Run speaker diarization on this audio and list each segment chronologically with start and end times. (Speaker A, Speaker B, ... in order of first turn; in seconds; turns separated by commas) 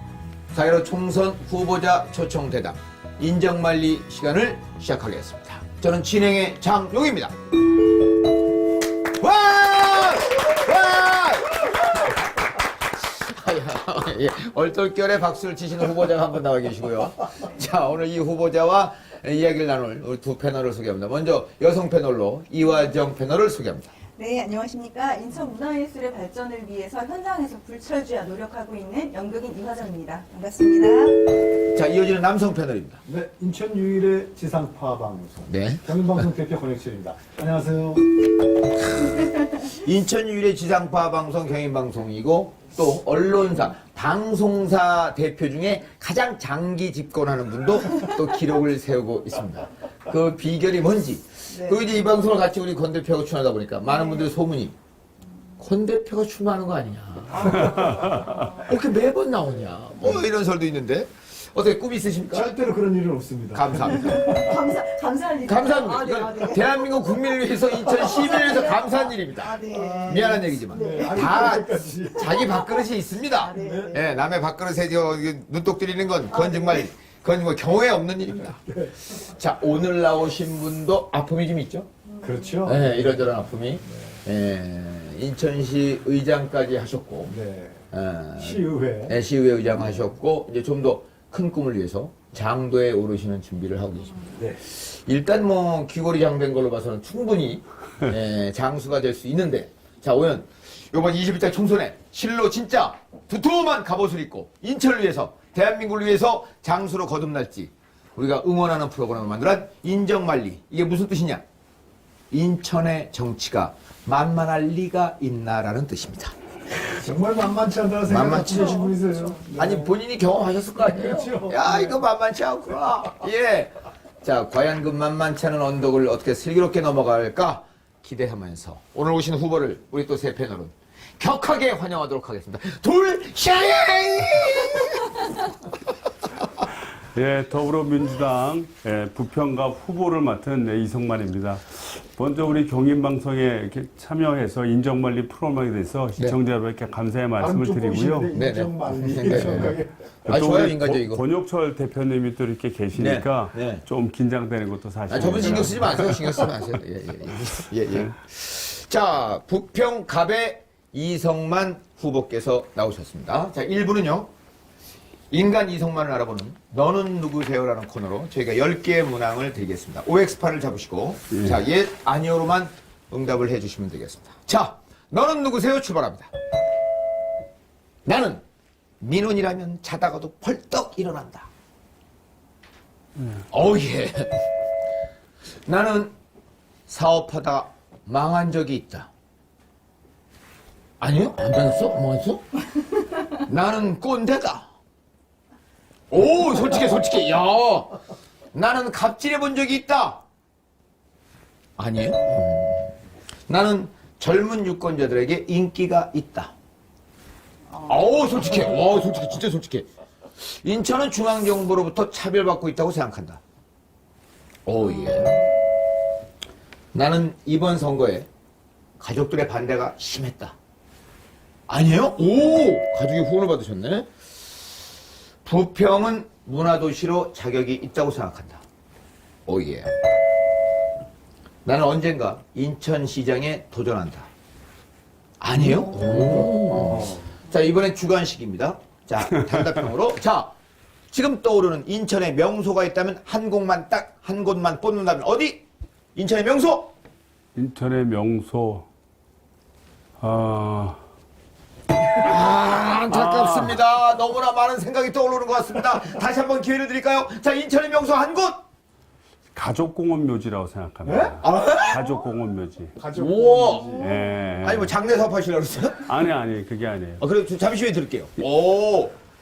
Speaker A: 0.5-7.3, Speaker A: 9.1-12.1, Speaker A: 12.9-23.9, Speaker B: 24.2-31.4, Speaker A: 31.6-33.0, Speaker C: 33.0-38.0, Speaker A: 35.5-36.0, Speaker A: 39.0-54.8, Speaker B: 51.5-51.8, Speaker B: 54.0-54.2, Speaker A: 55.6-57.8, Speaker C: 57.3-58.3, Speaker D: 57.5-58.5, Speaker B: 57.6-58.7, Speaker A: 58.6-62.5, Speaker C: 62.3-64.5, Speaker A: 63.5-64.0, Speaker B: 64.0-71.5, Speaker A: 65.5-69.6, Speaker C: 69.7-72.4, Speaker A: 70.1-81.9, Speaker B: 72.2-74.1, Speaker C: 73.6-74.0, Speaker B: 76.3-76.9, Speaker C: 78.6-79.0, Speaker B: 82.1-82.6, Speaker C: 82.2-84.2, Speaker A: 82.6-87.3, Speaker C: 87.3-87.8, Speaker A: 87.9-111.4, Speaker C: 88.4-89.2, Speaker A: 112.3-116.3, Speaker C: 116.9-120.0, Speaker A: 118.1-118.8, Speaker B: 118.5-119.4, Speaker A: 119.5-135.3, Speaker C: 120.8-122.0, Speaker D: 136.6-148.4, Speaker C: 147.4-150.0, Speaker A: 148.3-151.2, Speaker D: 149.2-156.5, Speaker A: 152.9-153.8, Speaker A: 155.1-164.3, Speaker D: 157.9-158.1, Speaker A: 165.3-176.3, Speaker D: 171.3-171.6, Speaker A: 178.1-178.4, Speaker A: 179.0-181.5, Speaker A: 183.5-184.5, Speaker A: 185.7-186.1, Speaker A: 186.9-189.1, Speaker A: 191.0-192.5, Speaker A: 193.3-194.7, Speaker A: 196.1-198.0, Speaker A: 198.5-200.2, Speaker A: 201.8-202.9, Speaker A: 203.5-206.5, Speaker B: 207.8-208.2, Speaker A: 207.8-209.9, Speaker A: 210.4-213.4, Speaker A: 214.7-215.4, Speaker B: 214.9-215.3, Speaker A: 216.9-218.3, Speaker A: 219.0-220.6, Speaker A: 221.7-224.4, Speaker A: 225.4-228.6, Speaker A: 229.5-229.9, Speaker A: 231.6-234.3, Speaker A: 235.4-240.5, Speaker C: 235.6-237.4, Speaker A: 241.1-245.6, Speaker A: 246.2-246.9, Speaker D: 247.6-248.9, Speaker D: 250.2-251.0, Speaker A: 252.2-258.6, Speaker D: 252.3-253.8, Speaker D: 259.5-263.0, Speaker C: 261.0-261.4, Speaker A: 261.4-262.1, Speaker C: 262.9-264.1, Speaker A: 263.1-264.1, Speaker B: 263.9-264.3, Speaker D: 264.0-264.9, Speaker A: 264.6-266.2, Speaker D: 266.1-267.2, Speaker A: 267.2-269.1